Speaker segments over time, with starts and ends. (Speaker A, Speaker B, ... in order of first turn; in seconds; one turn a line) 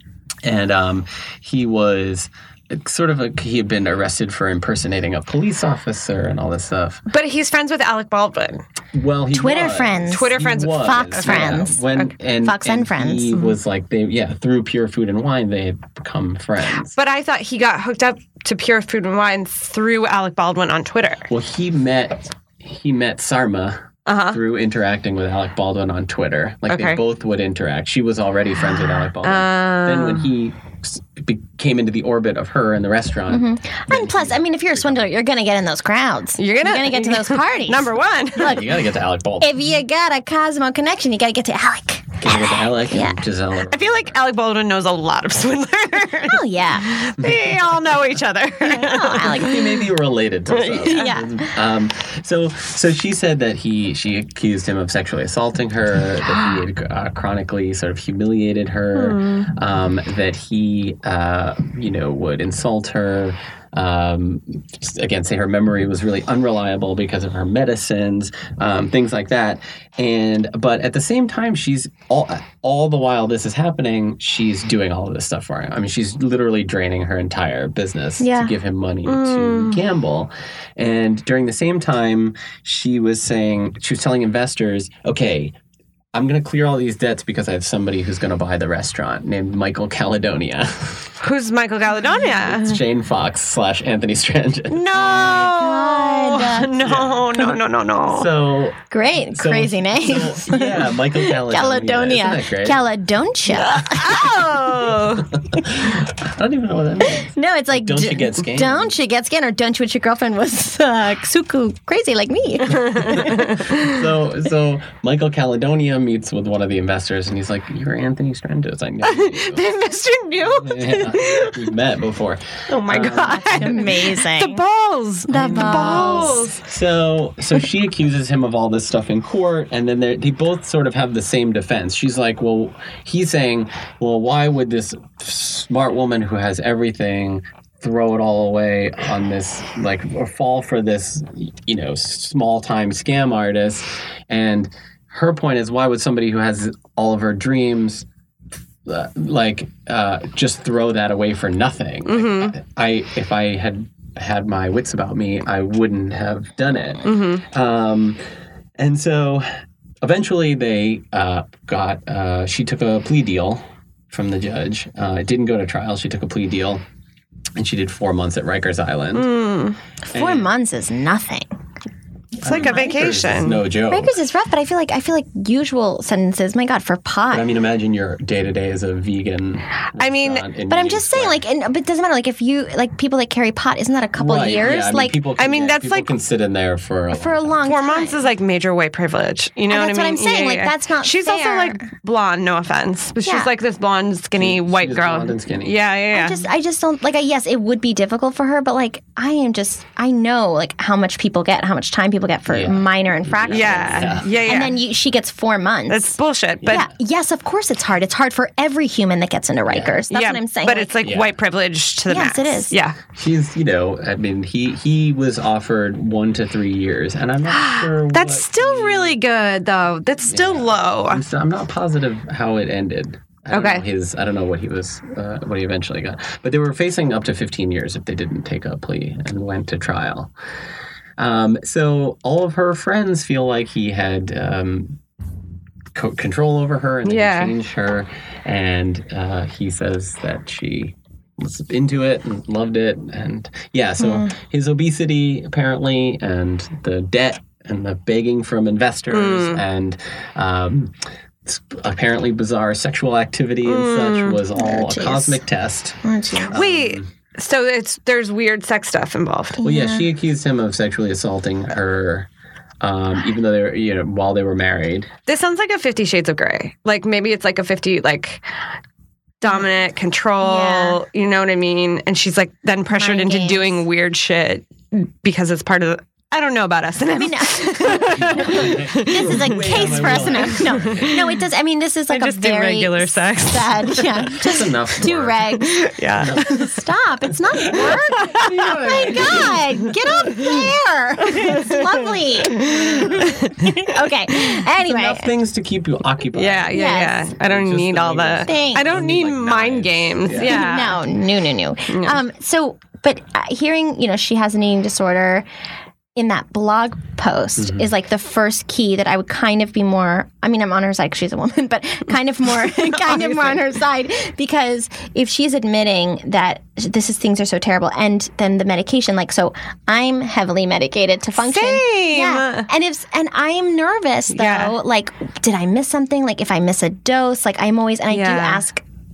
Speaker A: 0.4-7.0
Speaker B: 7.1-8.6
Speaker A: 8.9-17.0
Speaker C: 9.3-11.8
Speaker B: 10.1-12.0
Speaker C: 12.4-13.3
Speaker B: 16.9-21.3
Speaker A: 21.3-35.1
Speaker B: 24.1-24.4
Speaker B: 26.7-27.0
Speaker B: 29.2-30.3
Speaker C: 33.3-38.6
Speaker B: 36.4-38.6
Speaker A: 38.4-39.5
Speaker C: 39.4-43.2
Speaker A: 42.2-44.2
Speaker B: 43.7-49.7
Speaker C: 46.3-46.9
Speaker A: 47.2-47.8
Speaker C: 48.7-49.6
Speaker A: 49.2-85.5
Speaker B: 50.5-51.1
Speaker C: 50.9-51.5
Speaker B: 59.0-59.5
Speaker C: 78.2-78.5
Speaker B: 79.1-79.8
Speaker A: 86.1-91.1
Speaker B: 91.2-92.8
Speaker A: 92.4-95.4
Speaker B: 94.7-98.3
Speaker C: 95.3-96.7
Speaker A: 96.8-97.3
Speaker A: 98.1-102.8
Speaker C: 98.9-104.3
Speaker B: 103.5-105.3
Speaker A: 105.2-109.0
Speaker C: 107.2-113.7
Speaker A: 112.8-119.6
Speaker B: 119.0-121.7
Speaker A: 120.4-123.8
Speaker B: 122.7-126.7
Speaker C: 123.3-124.6
Speaker C: 125.3-126.4
Speaker A: 125.3-148.1
Speaker A: 148.8-158.2
Speaker B: 152.1-152.6
Speaker B: 157.0-157.4
Speaker A: 158.8-159.5
Speaker A: 160.0-166.8
Speaker A: 167.6-169.3
Speaker B: 169.1-169.8
Speaker C: 170.1-171.5
Speaker A: 170.1-170.5
Speaker C: 172.4-173.2
Speaker A: 172.4-174.2
Speaker B: 172.4-173.6
Speaker C: 173.9-177.5
Speaker A: 177.3-181.4
Speaker B: 180.0-180.5
Speaker C: 180.7-185.2
Speaker A: 184.1-187.7
Speaker B: 185.4-186.1
Speaker C: 187.1-188.2
Speaker B: 187.7-196.4
Speaker C: 189.7-191.9
Speaker C: 193.2-193.5
Speaker A: 194.4-195.8
Speaker C: 196.1-206.2
Speaker A: 202.5-204.4
Speaker B: 203.5-204.8
Speaker B: 205.9-206.8
Speaker A: 206.6-206.9
Speaker C: 206.7-210.9
Speaker A: 209.7-210.1
Speaker B: 210.1-213.0
Speaker A: 211.0-211.3
Speaker C: 212.1-212.7
Speaker A: 213.2-219.2
Speaker B: 217.5-221.2
Speaker A: 220.2-230.3
Speaker B: 223.5-223.9
Speaker A: 231.2-235.0
Speaker A: 235.9-250.9
Speaker B: 237.1-237.5
Speaker C: 244.0-244.3
Speaker B: 249.1-249.6
Speaker A: 251.4-257.1
Speaker B: 253.7-254.4
Speaker C: 254.6-255.4
Speaker C: 256.0-256.6
Speaker B: 256.5-259.6
Speaker C: 259.6-260.1
Speaker A: 259.6-262.3
Speaker A: 262.8-265.1
Speaker B: 265.3-268.4
Speaker B: 269.4-281.4
Speaker C: 270.4-271.0
Speaker C: 272.9-273.8
Speaker C: 277.1-285.9
Speaker A: 278.1-281.1
Speaker B: 282.1-284.4
Speaker A: 284.4-285.4
Speaker B: 285.6-286.6
Speaker A: 286.1-286.8
Speaker C: 286.4-293.3
Speaker A: 287.6-290.5
Speaker B: 288.3-289.6
Speaker A: 292.6-293.8
Speaker B: 292.6-293.8
Speaker C: 293.8-295.3
Speaker A: 294.8-300.8
Speaker B: 296.4-301.0
Speaker C: 296.7-297.3
Speaker C: 298.5-299.0
Speaker C: 300.3-305.5
Speaker B: 301.9-302.2
Speaker C: 306.2-328.8
Speaker A: 307.6-307.9
Speaker B: 312.7-313.6
Speaker B: 321.4-322.7
Speaker B: 324.3-324.8
Speaker B: 328.1-328.6